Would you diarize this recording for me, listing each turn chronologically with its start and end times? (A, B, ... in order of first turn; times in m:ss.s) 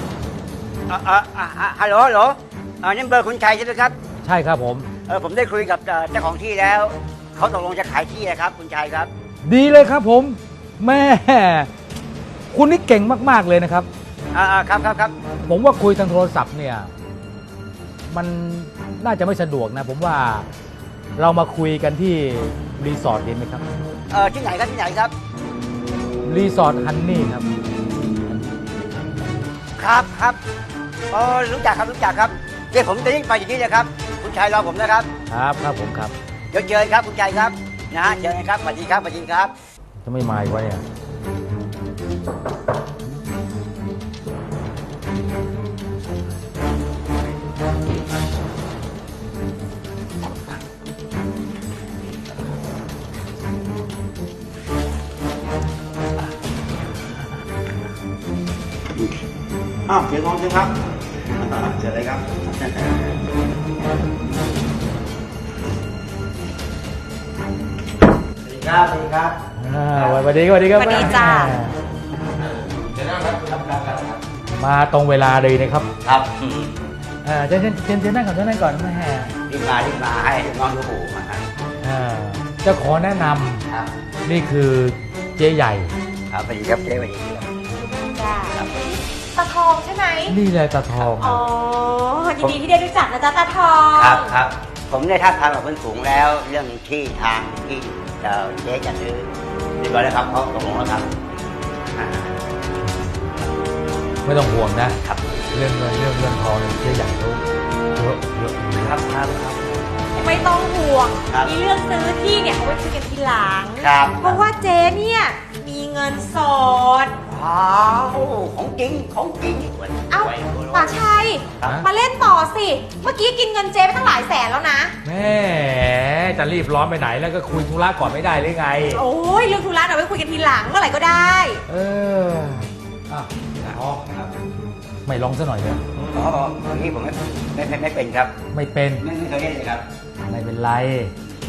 0:00.9-0:04.0 A
0:04.2-0:04.9 B
0:05.1-0:09.1 A
0:09.5-0:11.7 B
0:12.5-0:13.9 B
0:14.3-0:15.2 A
0:15.5-0:16.9 B
0:18.1-0:20.5 B
0:21.2-0:23.6 B
0:24.1-0:25.1 A
0:26.2-0:27.5 B
0:29.8-0:30.4 A
0:31.1-0:35.1 A
0:35.3-0:36.1 B
0:36.5-0:39.5 A
0:40.0-0:40.8 B
0:59.9-1:00.7 C
1:01.6-1:02.2 C
1:08.4-1:09.4 A
1:09.6-1:11.7 B
1:09.9-1:10.2 A
1:10.8-1:11.5 D
1:12.6-1:13.6 C
1:13.5-1:14.2 A
1:14.5-1:15.9 B
1:16.0-1:16.8 A
1:17.2-1:19.4 B
1:19.5-1:21.5 A
1:21.8-1:23.7 B
1:24.2-1:25.9 B
1:26.3-1:27.6 A
1:28.1-1:28.6 D
1:28.5-1:28.8 A
1:29.3-1:30.4 D
1:30.3-1:31.4 B
1:31.2-1:34.3 D
1:34.0-1:39.3 A
1:39.8-1:41.1 A
1:41.9-1:42.4 A
1:42.9-1:43.1 B
1:44.2-1:45.0 B
1:45.5-1:47.4 B
1:48.0-1:48.9 B
1:48.7-1:49.8 A
1:50.2-1:57.2 D
1:53.8-1:54.4 A
1:57.3-2:01.0 A
2:00.1-2:04.9 D
2:05.0-2:09.0 B
2:09.0-2:11.6 D
2:11.7-2:14.0 B
2:13.6-2:14.3 A
2:15.1-2:15.8 B
2:16.0-2:18.4 A
2:18.5-2:19.0 B
2:19.0-2:19.8 A
2:20.2-2:21.1 B